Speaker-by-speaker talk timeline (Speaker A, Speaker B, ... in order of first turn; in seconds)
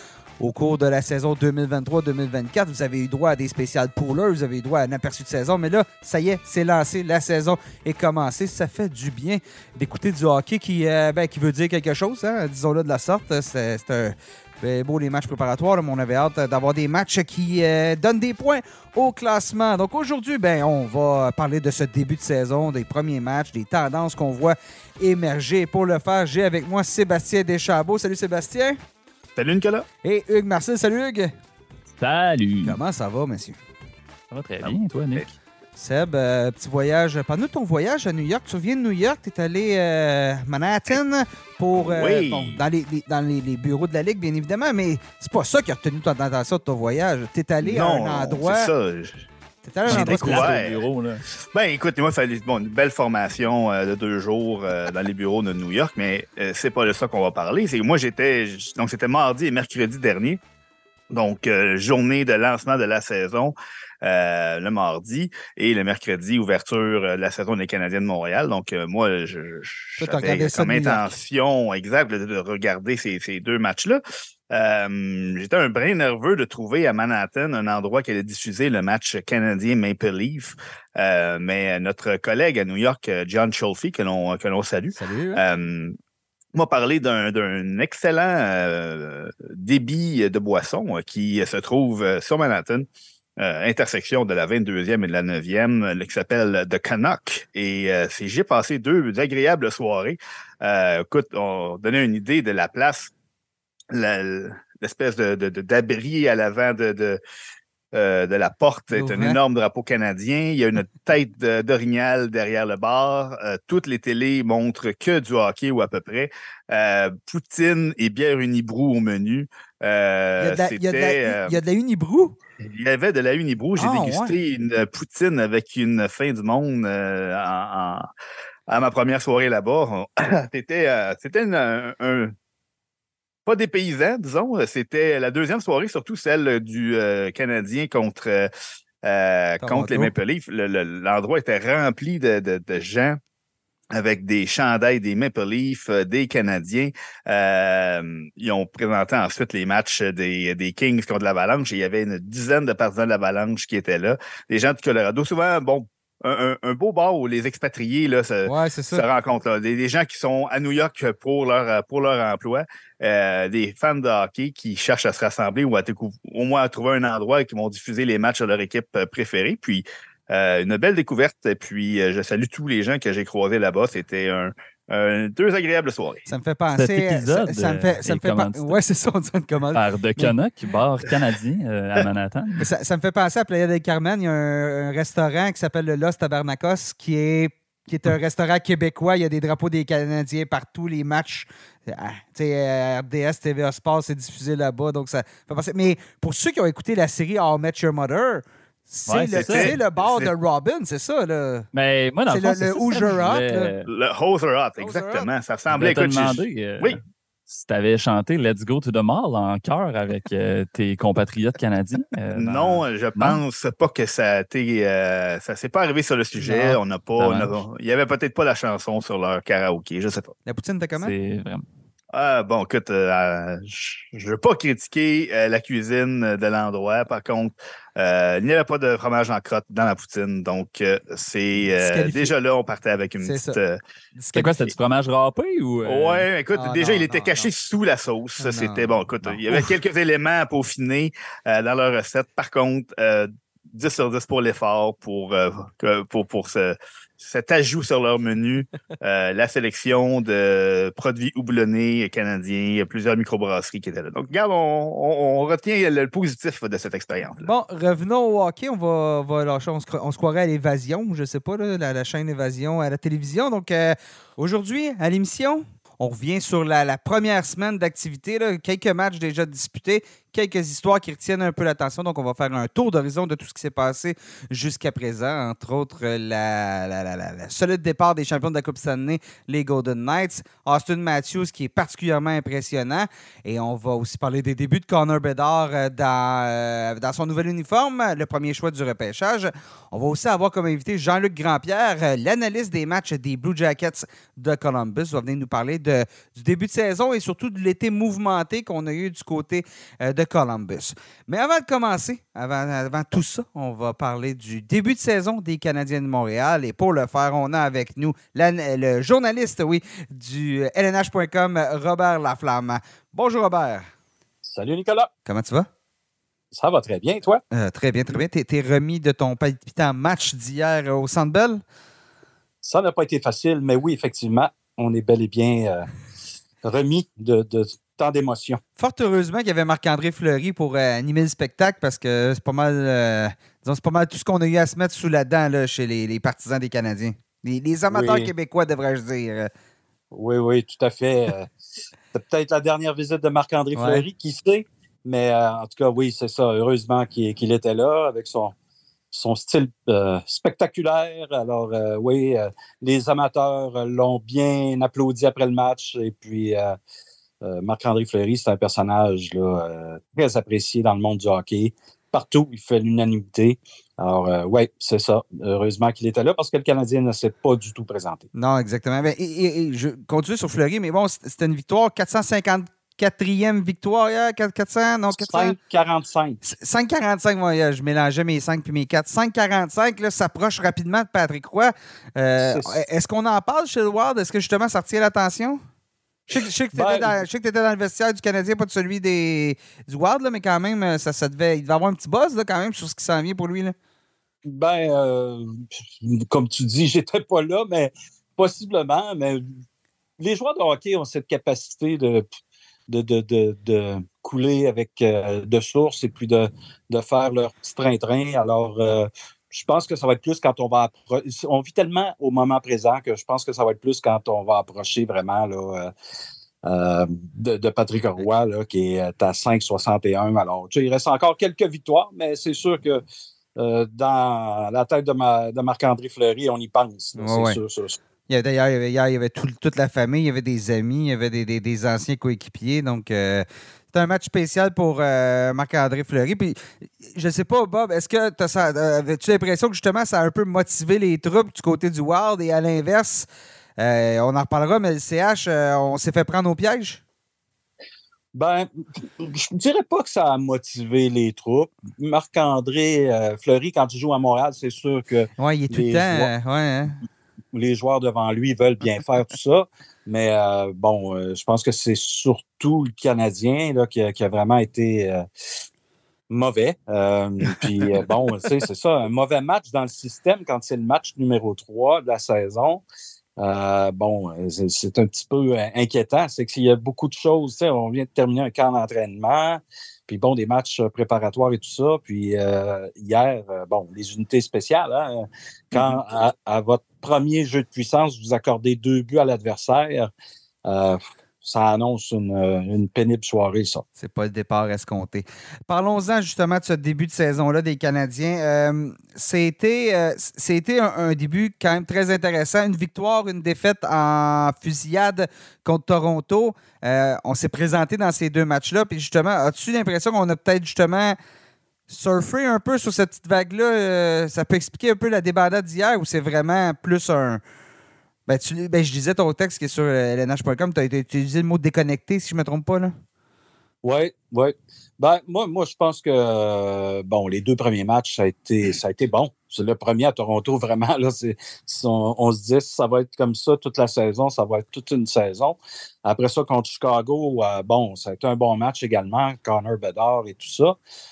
Speaker A: 0.4-28.8, 30.0-31.3, 32.6-33.6, 35.8-48.7, 49.6-50.6, 70.0-71.1, 84.9-85.4, 108.9-109.4, 120.4-122.4, 123.8-124.4, 139.6-140.1, 158.4-159.1, 176.3-180.3, 182.6-201.7, 202.3-203.7, 204.8-205.3, 216.3-216.8, 220.4-221.1, 231.7-232.3, 233.2-233.6, 234.1-234.7, 236.5-237.5, 238.4-238.9, 257.4-313.9, 315.3-315.7, 317.5-321.6, 328.8-339.5, 343.7-344.0, 368.3-375.6, 376.4-385.6, 386.3-393.7, 427.2-427.6, 428.3-443.3, 443.8-447.0, 455.4-457.0, 494.0-511.2, 511.9-517.4, 518.3-523.0
Speaker B: 29.4-29.9, 34.6-35.3, 41.8-42.6, 47.6-49.3, 49.9-50.8, 51.5-60.4, 61.1-86.0, 86.5-92.8, 93.4-103.1, 103.9-107.2, 107.9-121.6, 122.6-128.1, 128.7-132.3, 133.4-138.5, 139.0-143.2, 143.9-176.2, 199.3-200.3, 203.9-207.0, 212.3-220.3, 222.1-233.8, 235.8-257.5
Speaker C: 32.0-32.8, 34.3-35.2, 49.9-51.2, 176.7-178.7, 179.7-182.6, 199.1-199.8, 201.7-203.8, 205.7-213.4, 217.2-217.6, 221.0-221.6, 234.3-236.3
Speaker D: 314.4-315.1, 316.5-317.4, 322.6-325.9, 326.6-328.6, 337.9-338.3, 340.1-341.5, 342.1-348.5, 349.1-356.8, 357.4-368.2, 375.1-376.4, 382.4-382.8, 386.7-387.1, 394.4-399.5, 400.2-402.3, 402.9-415.9, 416.6-423.0, 423.6-428.0, 448.3-456.3, 457.5-465.2, 466.3-472.8, 473.4-490.1, 490.6-493.8, 523.8-540.8